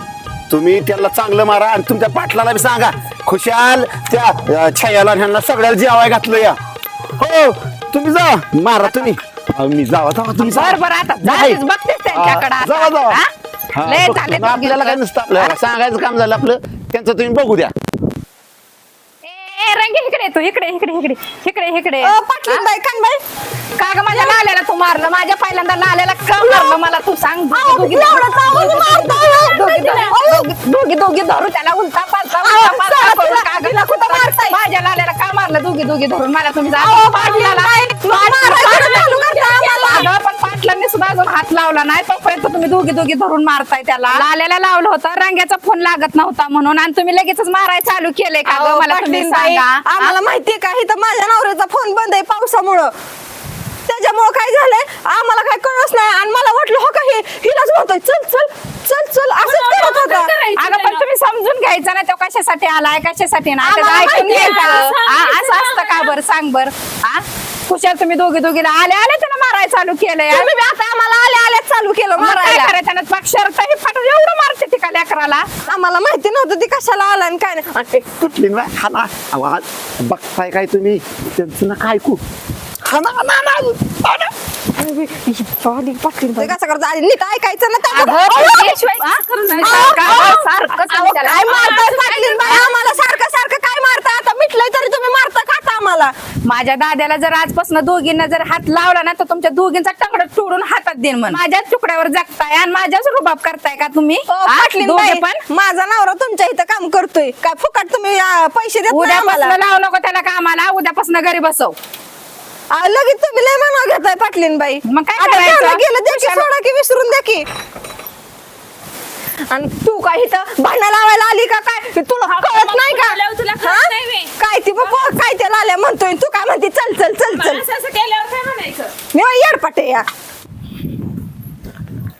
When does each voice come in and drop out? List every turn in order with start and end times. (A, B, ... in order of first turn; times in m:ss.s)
0:00.5-0:06.6 A
0:07.2-0:17.7 A
0:10.4-0:13.3 B
0:13.8-0:15.5 B
0:19.2-0:22.7 B
0:22.0-0:23.2 C
0:23.8-0:50.2 B
0:24.1-0:24.4 C
0:26.4-0:26.8 C
0:27.5-0:30.5 C
0:32.4-0:34.6 C
0:36.8-0:40.1 C
0:38.7-0:40.1 D
0:48.4-0:52.9 C
0:53.9-1:00.3 C
0:59.4-1:01.0 D
1:00.6-1:10.5 B
1:03.6-1:04.9 C
1:03.8-1:06.1 D
1:10.3-1:12.7 C
1:12.2-1:15.5 B
1:15.7-1:18.1 C
1:18.2-1:22.2 A
1:22.8-1:24.3 A
1:24.8-1:28.9 C
1:27.9-1:31.8 B
1:28.3-1:30.4 D
1:29.6-1:36.1 C
1:31.2-1:32.7 D
1:36.4-1:45.4 B
1:44.3-1:49.6 C
1:48.9-1:51.8 B
1:52.7-1:57.5 C
1:54.8-1:56.5 B
1:59.5-2:07.6 C
2:02.3-2:05.1 D
2:07.3-2:08.9 D
2:09.1-2:10.1 C